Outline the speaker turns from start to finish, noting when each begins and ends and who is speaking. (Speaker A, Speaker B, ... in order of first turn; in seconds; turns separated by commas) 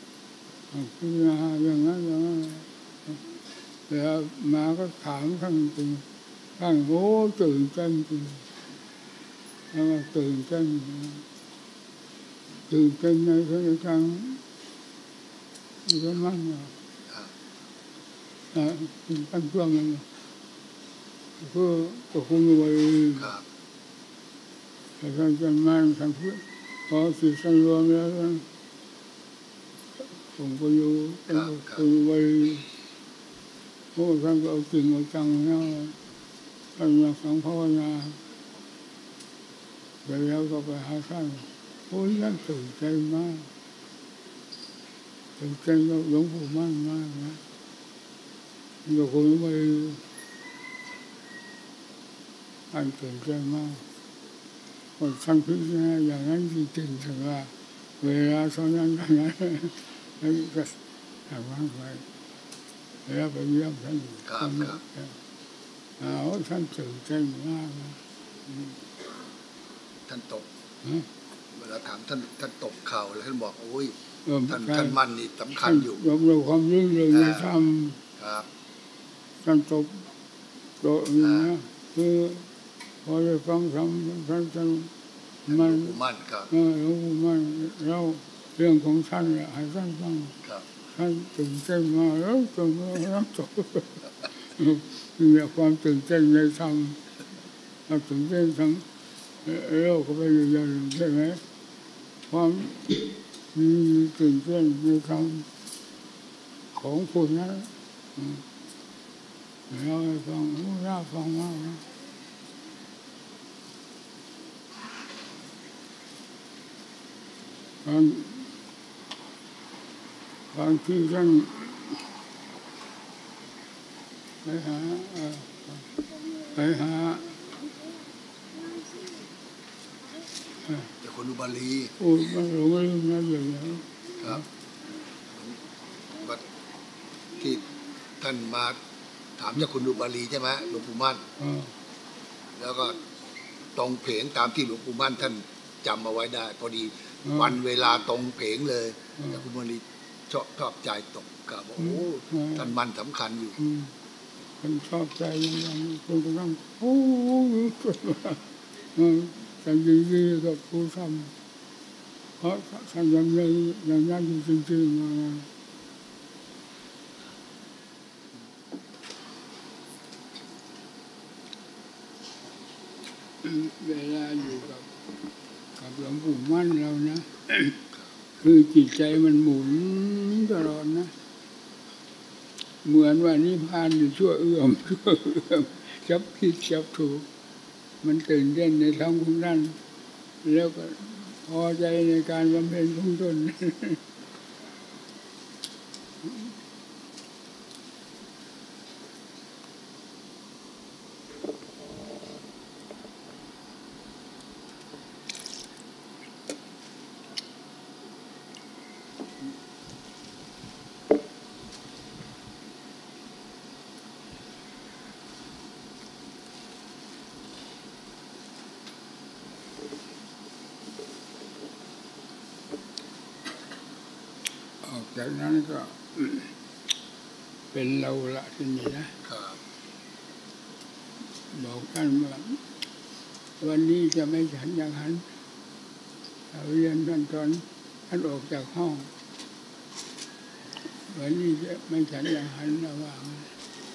Speaker A: 0.7-3.2, Speaker A: 3.9-6.0, Speaker A: 6.6-8.5, Speaker A: 9.7-11.2, Speaker A: 12.7-14.4, Speaker A: 15.8-16.7, Speaker A: 18.5-20.1, Speaker A: 21.4-23.3, Speaker A: 25.0-28.4, Speaker A: 30.3-32.7, Speaker B: 31.3-31.8, Speaker A: 33.9-36.0, Speaker A: 36.8-38.2, Speaker A: 40.0-43.5, Speaker A: 45.4-47.4, Speaker A: 48.9-50.0, Speaker A: 52.7-53.8, Speaker A: 55.0-62.0, Speaker A: 63.1-65.1, Speaker B: 64.3-64.8, Speaker A: 66.0-68.8, Speaker B: 70.1-70.5, Speaker B: 71.5-73.9, Speaker A: 74.2-75.0, Speaker B: 74.5-76.0, Speaker A: 75.5-78.0, Speaker B: 77.1-77.5, Speaker B: 78.2-78.5, Speaker A: 79.4-80.1, Speaker A: 80.8-82.5, Speaker B: 81.2-81.5, Speaker A: 83.0-84.9, Speaker A: 85.5-86.0, Speaker B: 85.5-86.5, Speaker A: 86.5-90.4, Speaker A: 90.9-97.0, Speaker A: 97.9-98.8, Speaker A: 99.4-101.4, Speaker A: 102.3-105.5, Speaker A: 106.7-108.4, Speaker A: 109.7-111.8, Speaker A: 117.8-118.5, Speaker A: 120.5-122.0, Speaker A: 124.4-125.8, Speaker A: 126.5-127.3, Speaker A: 130.7-130.9, Speaker B: 131.0-131.9, Speaker A: 132.0-134.4, Speaker B: 135.3-135.6, Speaker B: 136.2-136.4, Speaker B: 137.4-137.7, Speaker B: 138.2-138.8, Speaker B: 139.4-141.2, Speaker A: 141.4-141.7, Speaker B: 142.6-143.0, Speaker B: 143.7-153.6, Speaker A: 147.2-147.5, Speaker A: 151.8-152.7, Speaker A: 153.6-153.9, Speaker A: 154.6-161.3, Speaker A: 162.4-165.5, Speaker A: 173.4-174.9, Speaker A: 175.8-177.8, Speaker A: 178.4-181.1, Speaker A: 182.8-187.3, Speaker A: 188.0-189.8, Speaker A: 190.4-194.0, Speaker A: 196.2-196.5, Speaker A: 224.8-226.5, Speaker A: 227.7-229.1, Speaker B: 229.2-229.6, Speaker A: 231.5-232.6, Speaker A: 233.6-235.3, Speaker A: 236.5-239.1, Speaker A: 241.1-243.5